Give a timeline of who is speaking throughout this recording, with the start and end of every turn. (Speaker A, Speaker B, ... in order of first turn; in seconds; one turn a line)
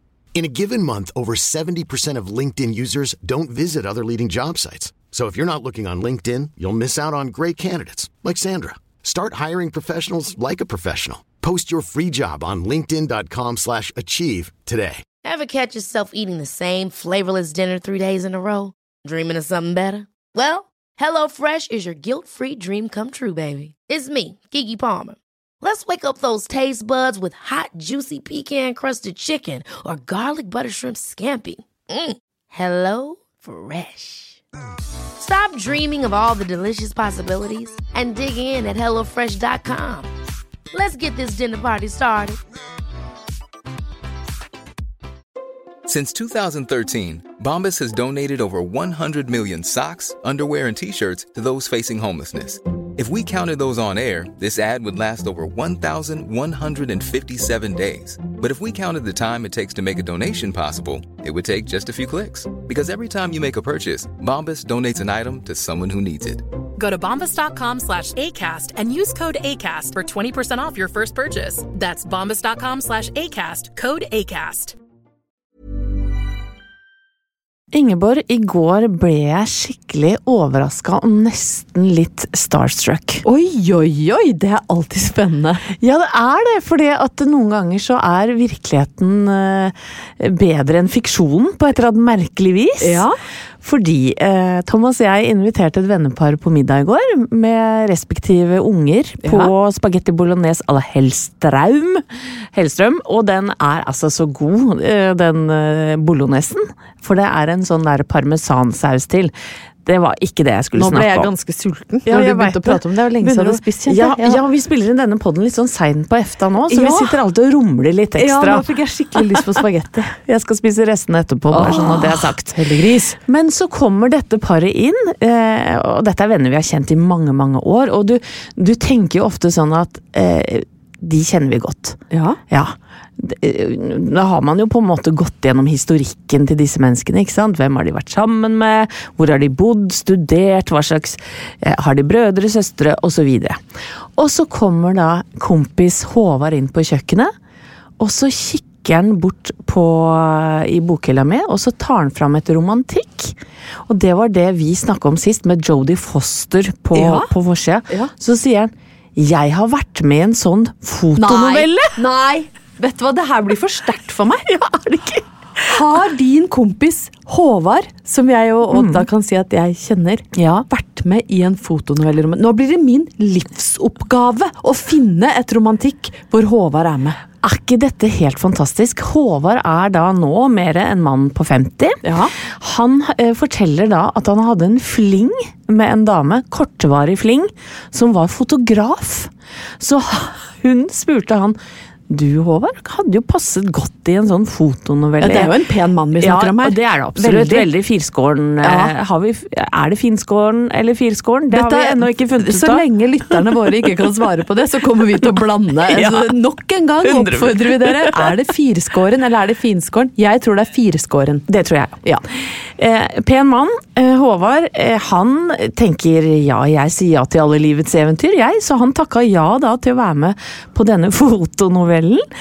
Speaker A: 0.3-15.0
Speaker B: 15.2-34.4
Speaker B: 35.2-40.1
Speaker B: 40.7-42.4
Speaker C: 45.9-66.4
Speaker D: 66.8-74.8
Speaker E: 77.7-83.2
Speaker F: 83.2-85.7
Speaker E: 85.8-93.0
Speaker F: 92.8-93.1
Speaker E: 93.6-109.3
Speaker F: 99.2-99.5
Speaker E: 109.8-111.3
Speaker F: 110.7-114.4
Speaker E: 112.0-119.5
Speaker F: 116.7-117.1
Speaker F: 118.2-120.1
Speaker E: 120.1-122.7
Speaker F: 121.5-123.2
Speaker E: 123.2-143.6
Speaker F: 132.1-132.4
Speaker E: 144.2-147.3
Speaker E: 148.0-161.9
Speaker F: 156.9-157.3
Speaker F: 161.2-164.5
Speaker E: 164.5-165.8
Speaker F: 165.6-177.2
Speaker E: 168.7-169.1
Speaker E: 170.3-170.7
Speaker E: 177.4-191.6
Speaker F: 182.0-182.3
Speaker E: 192.1-195.5
Speaker F: 195.2-197.7
Speaker E: 196.2-203.8
Speaker F: 198.6-198.9
Speaker F: 201.5-211.4
Speaker E: 205.2-206.3
Speaker E: 207.0-208.4
Speaker E: 211.5-212.0
Speaker E: 212.8-222.3